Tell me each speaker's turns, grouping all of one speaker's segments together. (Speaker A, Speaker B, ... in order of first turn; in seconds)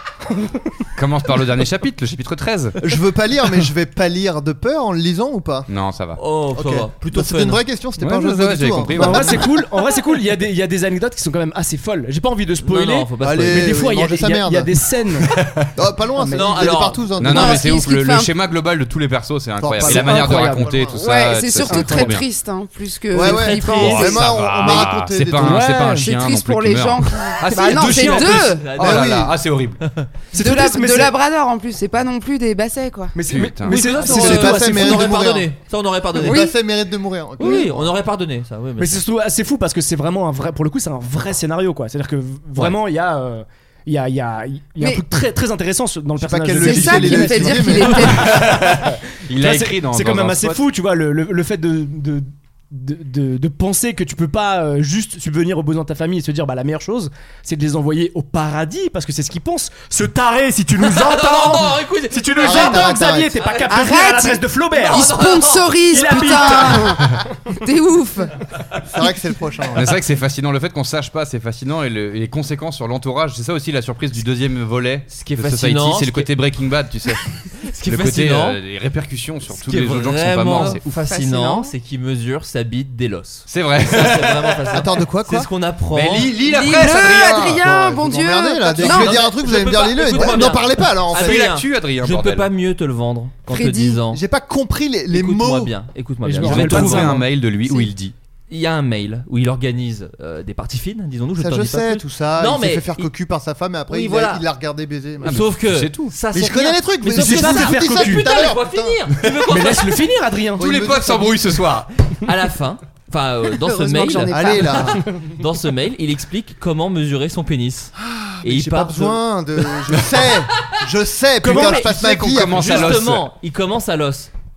Speaker A: 0.3-0.8, 8.9-15.3, 16.2-16.8, 19.8-20.9, 21.7-22.1, 25.4-26.1, 30.3-31.1, 33.1-35.1, 38.8-65.2, 65.9-67.2, 96.2-97.3, 107.1-108.5, 109.5-110.7
Speaker B: 1.0-2.8, 5.7-6.2, 8.0-9.5, 17.2-22.2, 23.8-29.8, 33.3-33.8, 48.1-50.6, 69.8-80.8, 83.5-84.7, 85.9-87.6, 91.1-92.5, 96.4-98.1, 105.2-106.2, 110.6-111.9, 121.7-123.3
Speaker C: 2.8-5.7, 6.5-9.6, 13.2-14.7, 15.8-17.7, 19.6-21.0, 23.1-25.7, 28.7-29.4, 34.0-35.5, 36.1-37.9, 46.2-48.1, 62.4-63.3, 68.9-70.0, 84.7-85.5, 86.9-91.5, 94.1-95.7, 101.4-105.5, 106.3-109.3, 110.6-111.4, 114.3-115.0, 118.0-123.0
Speaker D: 6.2-7.6, 12.6-13.8, 16.3-17.1, 23.2-24.1, 28.4-29.1, 29.8-30.1, 33.6-36.5, 37.4-39.0, 60.8-63.7, 64.8-66.7, 75.1-76.3, 77.6-78.6, 79.6-86.3, 88.8-94.2, 95.1-97.1, 98.5-103.1, 103.9-104.5, 105.2-110.0, 112.2-119.2, 121.4-124.3
Speaker E: 17.2-18.3, 20.9-24.2, 26.0-28.7, 30.4-33.2, 36.2-36.5, 44.8-45.0, 46.6-48.6, 63.7-68.3, 80.6-81.7, 86.4-89.3, 93.5-94.0, 113.6-115.0